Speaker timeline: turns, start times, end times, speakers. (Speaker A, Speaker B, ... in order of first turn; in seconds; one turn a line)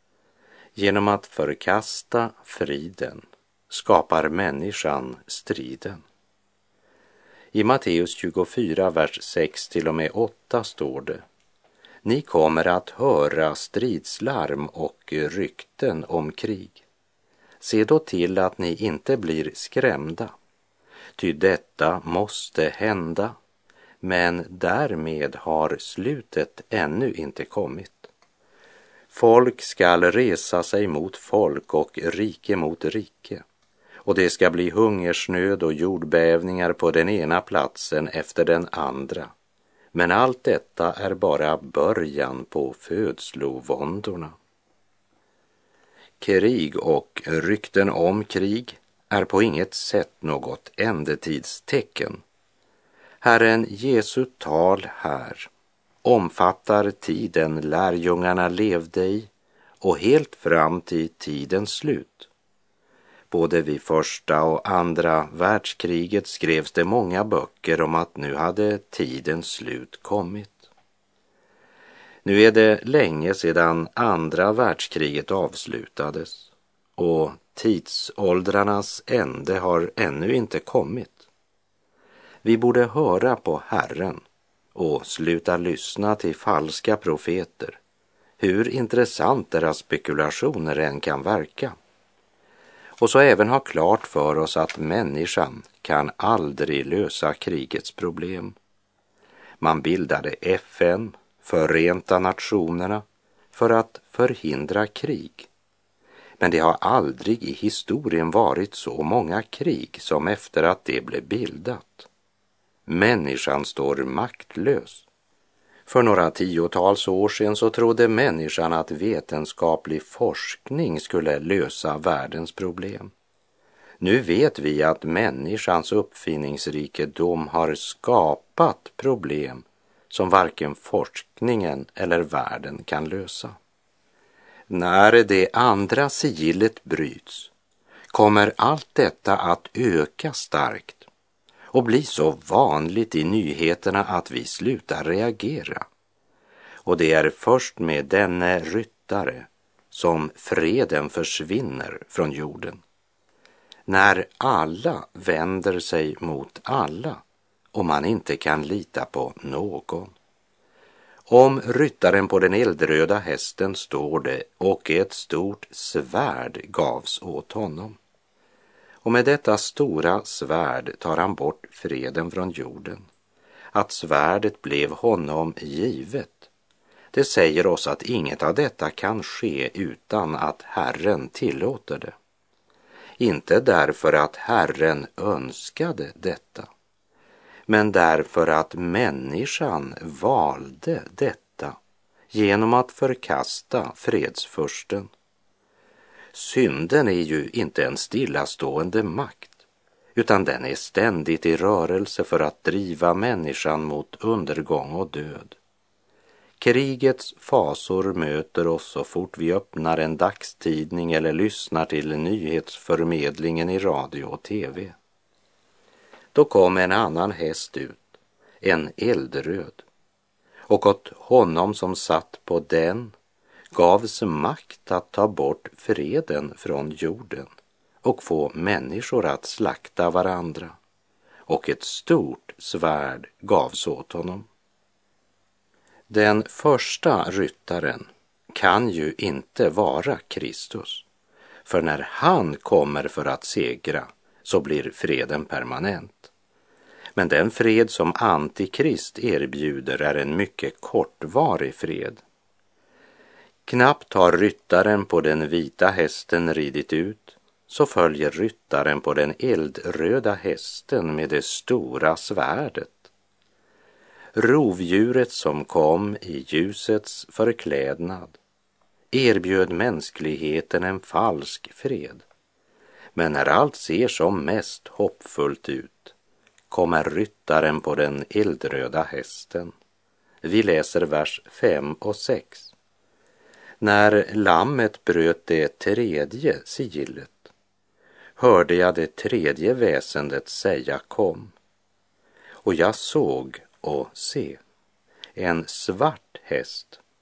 Speaker A: 0.8-6.0
Speaker A: 7.5-11.2
Speaker A: 12.0-16.8
Speaker A: 17.6-20.3
Speaker A: 21.2-23.4
Speaker A: 24.0-28.1
Speaker A: 29.1-33.4
Speaker A: 34.0-39.3
Speaker A: 39.9-44.3
Speaker A: 46.2-52.2
Speaker A: 53.2-55.5
Speaker A: 56.0-62.3
Speaker A: 63.3-70.7
Speaker A: 72.2-81.3
Speaker A: 82.4-84.2
Speaker A: 84.7-87.8
Speaker A: 88.4-91.7
Speaker A: 93.0-98.5
Speaker A: 99.6-105.5
Speaker A: 106.4-112.1
Speaker A: 112.8-115.1
Speaker A: 115.9-123.1
Speaker A: 124.0-133.6
Speaker A: 134.7-137.5
Speaker A: 138.1-141.1
Speaker A: 141.7-145.8
Speaker A: 146.8-152.8
Speaker A: 153.9-157.2
Speaker A: 157.7-160.1
Speaker A: 161.3-168.0
Speaker A: 169.0-173.0
Speaker A: 173.7-176.5
Speaker A: 177.1-182.1
Speaker A: 183.2-186.7
Speaker A: 187.7-191.8
Speaker A: 192.3-195.1
Speaker A: 196.3-199.6
Speaker A: 200.2-205.6
Speaker A: 206.6-214.9
Speaker A: 216.3-219.8
Speaker A: 220.7-223.1
Speaker A: 223.7-227.5
Speaker A: 228.0-230.8
Speaker A: 231.5-234.5
Speaker A: 236.1-241.1
Speaker A: 241.7-246.3
Speaker A: 247.2-252.2
Speaker A: 253.7-263.1
Speaker A: 264.3-268.4
Speaker A: 269.1-272.2
Speaker A: 273.1-276.1
Speaker A: 276.7-279.7
Speaker A: 280.4-282.7
Speaker A: 283.8-287.5
Speaker A: 288.4-291.5
Speaker A: 292.6-294.6
Speaker A: 295.4-297.0